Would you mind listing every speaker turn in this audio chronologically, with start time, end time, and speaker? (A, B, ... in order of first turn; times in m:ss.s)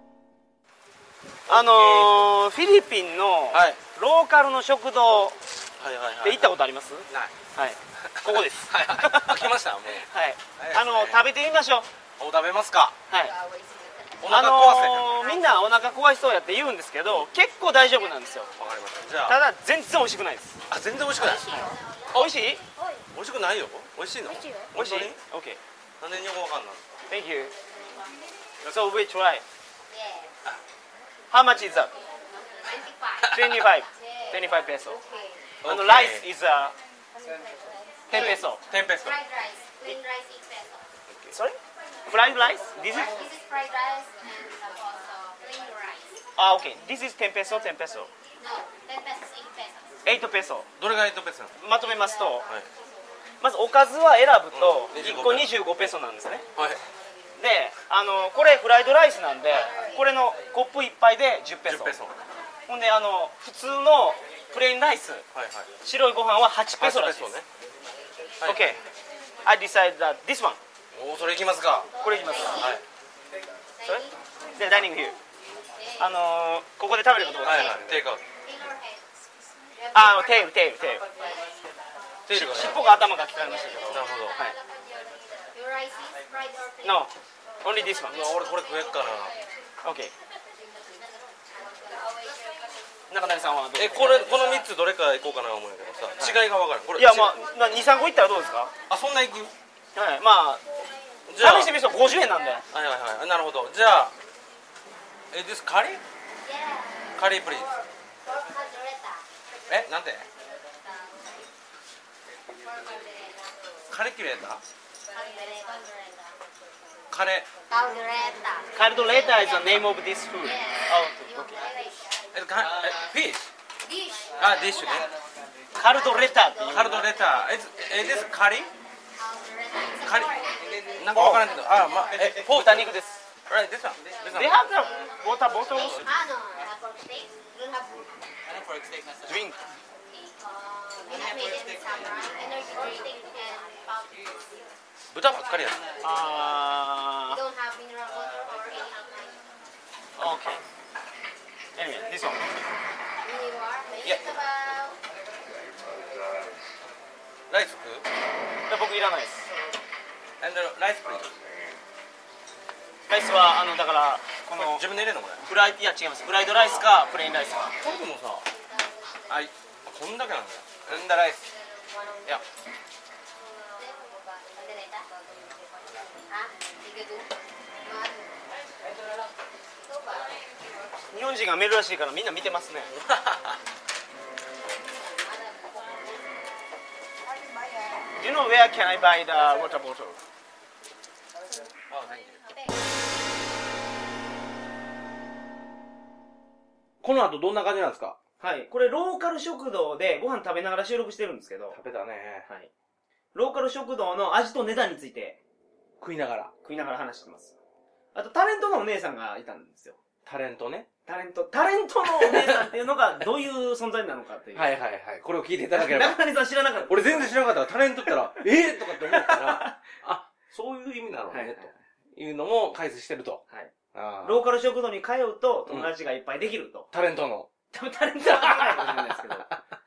0:01.5-0:02.3 A
0:01.5-0:05.4 B
0:03.5-0:03.8 A
0:05.8-0:06.5 A
0:06.2-0:11.9 B
0:08.0-0:10.1 A
0:10.6-0:11.2 A
0:12.2-0:12.9 A
0:13.1-0:13.4 B
0:14.2-0:15.3 A
0:14.3-0:18.5 B
0:18.6-0:19.4 A
0:19.2-0:20.6 B
0:20.7-0:22.3 A
0:21.2-0:21.8 C
0:22.1-0:22.6 B
0:23.1-0:25.2 A
0:24.7-0:25.6 B
0:26.0-0:26.8 A
0:27.1-0:27.5 B
0:28.6-0:29.4 B
0:29.9-0:30.3 C
0:31.3-0:31.9 B
0:32.6-0:33.3 C
0:33.2-0:33.6 A
0:33.3-0:35.0 B
0:35.0-0:35.3 C
0:35.6-0:36.3 A
0:35.6-0:36.7 B
0:38.1-0:38.6 B
0:38.2-0:39.2 A
0:39.0-0:40.8 C
0:41.3-0:41.6 B
0:42.1-0:43.2 B
0:43.1-0:46.2 C
0:46.4-0:48.1 B
0:48.4-0:49.8 C
0:50.0-0:50.7 B
0:50.8-0:51.5 A
0:51.6-0:52.4 B
0:53.4-0:56.4 B
0:54.5-0:55.9 A
0:56.6-0:56.8 A
0:57.4-1:02.0 B
1:01.6-1:02.1 A
1:02.7-1:05.2 B
1:05.3-1:05.7 A
1:05.8-1:07.4 B
1:06.8-1:07.5 A
1:08.4-1:08.8 A
1:08.4-1:08.8 B
1:09.4-1:10.6 B
1:10.9-1:11.9 A
1:12.0-1:12.7 B
1:12.2-1:12.7 C
1:12.6-1:12.8 A
1:13.8-1:14.1 C
1:13.8-1:15.2 B
1:16.0-1:17.9 B
1:17.4-1:17.8 C
1:17.4-1:18.2 A
1:18.4-1:19.0 C
1:19.9-1:21.0 B
1:22.2-1:22.9 A
1:22.3-1:24.6 B
1:22.5-1:27.0 C
1:23.9-1:24.4 A
1:26.8-1:27.1 B
1:27.6-1:28.2 B
1:28.0-1:29.3 A
1:28.1-1:28.4 C
1:29.8-1:30.1 B
1:30.9-1:32.2 C
1:33.1-1:34.4 B
1:33.7-1:37.3 A
1:36.9-1:38.7 B
1:38.9-1:39.5 A
1:39.9-1:40.6 B
1:41.2-1:41.7 A
1:41.4-1:42.6 B
1:42.7-1:44.1 A
1:45.3-1:46.0 A
1:46.5-1:47.1 C
1:47.2-1:47.7 A
1:48.2-1:49.2 C
1:49.7-1:50.2 A
1:50.7-1:51.3 C
1:53.9-1:54.6 A
1:55.1-1:56.3 C
1:57.1-1:57.5 A
1:57.7-1:58.7 C
1:58.7-2:01.6 B
2:00.4-2:02.3 C
2:02.3-2:03.5 A
2:03.9-2:05.0 C
2:04.4-2:05.1 A
2:05.8-2:07.0 B
2:05.9-2:07.4 C
2:06.6-2:08.7 A
2:09.1-2:11.5 C
2:10.0-2:10.4 A
2:11.0-2:12.9 A
2:11.1-2:11.5 B
2:12.2-2:13.1 B
2:13.5-2:14.6 A
2:14.3-2:16.0 B
2:14.3-2:14.8 C
2:15.9-2:18.0 C
2:19.2-2:19.6 B
2:20.1-2:24.4 C
2:25.1-2:25.8 A
2:26.0-2:27.4 B
2:27.3-2:29.4 C
2:30.2-2:30.6 B
2:31.8-2:32.4 B
2:33.2-2:35.0 C
2:34.0-2:34.4 A
2:37.5-2:38.1 A
2:38.7-2:39.5 B
2:40.4-2:41.3 A
2:43.1-2:44.8 B
2:44.6-2:45.4 A
2:45.4-2:47.7 B
2:47.8-2:48.4 A
2:48.5-2:49.5 C
2:49.3-2:51.5 A
2:51.4-2:52.4 C
2:53.6-2:57.3 C
2:57.8-2:58.3 C
2:59.8-3:00.4 C
3:01.1-3:02.9 B
3:02.9-3:03.6 A
3:05.1-3:06.1 C
3:08.2-3:10.2 B
3:11.9-3:12.5 A
3:17.0-3:18.2 A
3:18.4-3:21.8 B
3:21.7-3:22.5 A
3:23.3-3:25.4 B
3:26.0-3:26.5 A
3:26.6-3:27.6 B
3:28.1-3:30.0 B
3:30.2-3:30.9 A
3:31.0-3:34.7 B
3:32.0-3:32.7 A
3:34.5-3:36.2 A
3:35.7-3:37.3 B
3:36.9-3:43.4 A
3:38.0-3:39.8 B
3:41.3-3:41.8 B
3:43.5-3:46.9 B
3:43.9-3:44.4 A
3:46.9-3:47.5 A
3:47.7-3:49.5 B
3:48.2-3:49.2 A